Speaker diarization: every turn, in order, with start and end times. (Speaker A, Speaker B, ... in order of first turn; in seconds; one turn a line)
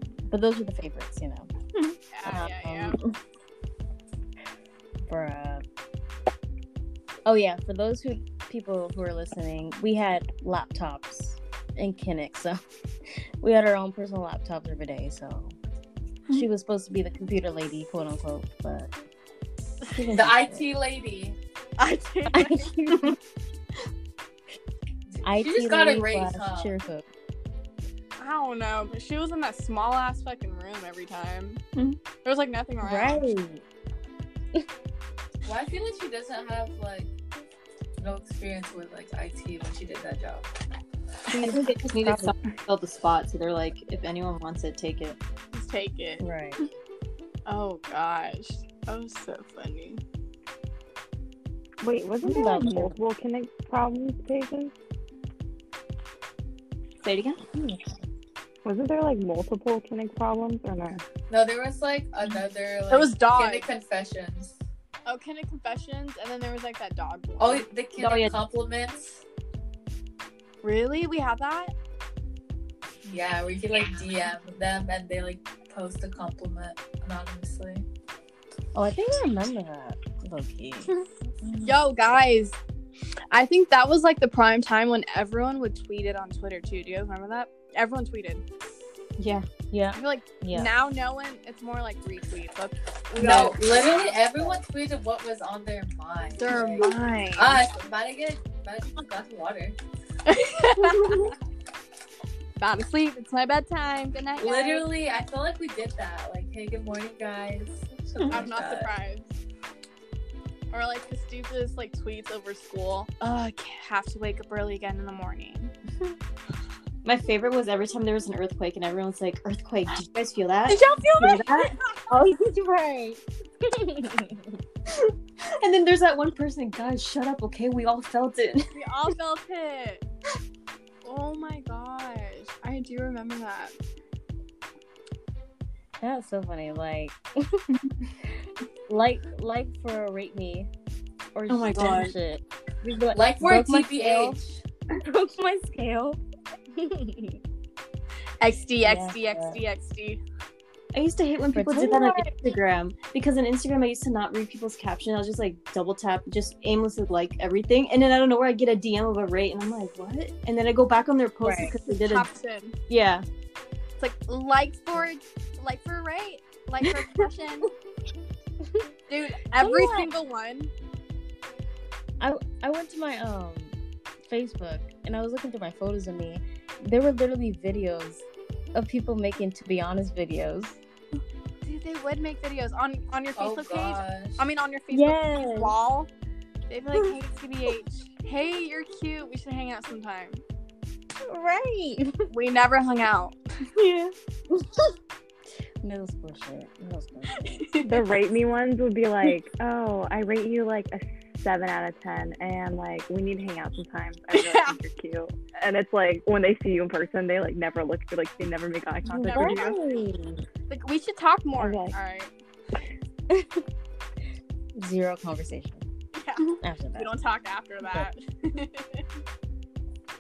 Speaker A: 0.3-1.5
Speaker B: 2.1-2.9
Speaker A: 2.2-3.0
Speaker A: 5.1-5.6
Speaker A: 7.2-12.6
Speaker A: 13.4-15.6
Speaker A: 16.3-18.9
Speaker A: 19.9-20.6
Speaker C: 20.1-21.4
Speaker B: 21.8-22.7
Speaker A: 22.3-23.2
Speaker C: 25.1-26.7
Speaker A: 25.2-27.0
Speaker B: 28.2-31.6
Speaker B: 32.2-33.2
Speaker A: 32.8-33.6
Speaker C: 35.4-37.1
Speaker C: 38.0-40.5
Speaker A: 41.3-42.3
Speaker D: 41.4-45.2
Speaker B: 45.5-46.2
Speaker A: 46.2-46.6
Speaker B: 47.5-50.0
Speaker E: 51.8-54.7
Speaker A: 52.2-53.0
Speaker D: 57.0-57.4
Speaker E: 58.6-61.0
Speaker C: 61.3-64.6
Speaker B: 62.9-63.7
Speaker B: 65.0-67.6
Speaker C: 67.4-69.2
Speaker D: 68.0-68.4
Speaker B: 70.6-71.7
Speaker C: 73.1-77.8
Speaker A: 78.7-80.9
Speaker B: 81.6-82.6
Speaker B: 83.3-88.4
Speaker D: 89.2-89.5
Speaker A: 89.7-90.7
Speaker B: 89.9-93.9
Speaker C: 93.2-99.8
Speaker D: 93.2-93.5
Speaker A: 94.0-94.6
Speaker B: 96.4-97.6
Speaker B: 100.2-101.3
Speaker D: 101.0-101.3
Speaker B: 102.6-104.9
Speaker C: 104.4-108.9
Speaker D: 108.2-108.4
Speaker B: 108.3-109.3
Speaker B: 110.7-115.7
Speaker D: 117.0-121.7
Speaker B: 120.7-121.7
Speaker A: 122.1-124.5
Speaker D: 124.9-128.7
Speaker B: 128.7-130.0
Speaker B: 131.0-133.7
Speaker A: 136.0-137.6
Speaker A: 138.9-140.7
Speaker A: 141.3-144.4
Speaker D: 141.5-142.1
Speaker C: 143.1-144.6
Speaker A: 145.0-146.2
Speaker A: 146.7-147.4
Speaker B: 148.4-150.2
Speaker A: 148.8-149.6
Speaker D: 150.9-162.3
Speaker A: 151.5-152.3
Speaker A: 161.4-161.7
Speaker B: 161.8-162.8
Speaker D: 162.9-163.2
Speaker B: 164.0-167.7
Speaker B: 169.1-170.7
Speaker A: 169.6-170.1
Speaker A: 172.2-173.7
Speaker A: 174.2-180.8
Speaker B: 181.6-186.1
Speaker C: 183.3-184.4
Speaker A: 184.9-185.7
Speaker B: 186.7-190.4
Speaker A: 191.2-192.3
Speaker B: 192.3-193.3
Speaker D: 193.8-194.1
Speaker A: 194.5-194.9
Speaker A: 195.8-197.7
Speaker B: 197.4-198.0
Speaker E: 197.8-209.8
Speaker B: 204.3-204.8
Speaker B: 209.1-209.8
Speaker A: 209.3-210.4
Speaker B: 210.7-212.3
Speaker E: 211.6-211.9
Speaker A: 213.3-213.6
Speaker A: 214.7-215.8
Speaker B: 216.1-219.0
Speaker A: 216.6-217.1
Speaker A: 217.8-218.1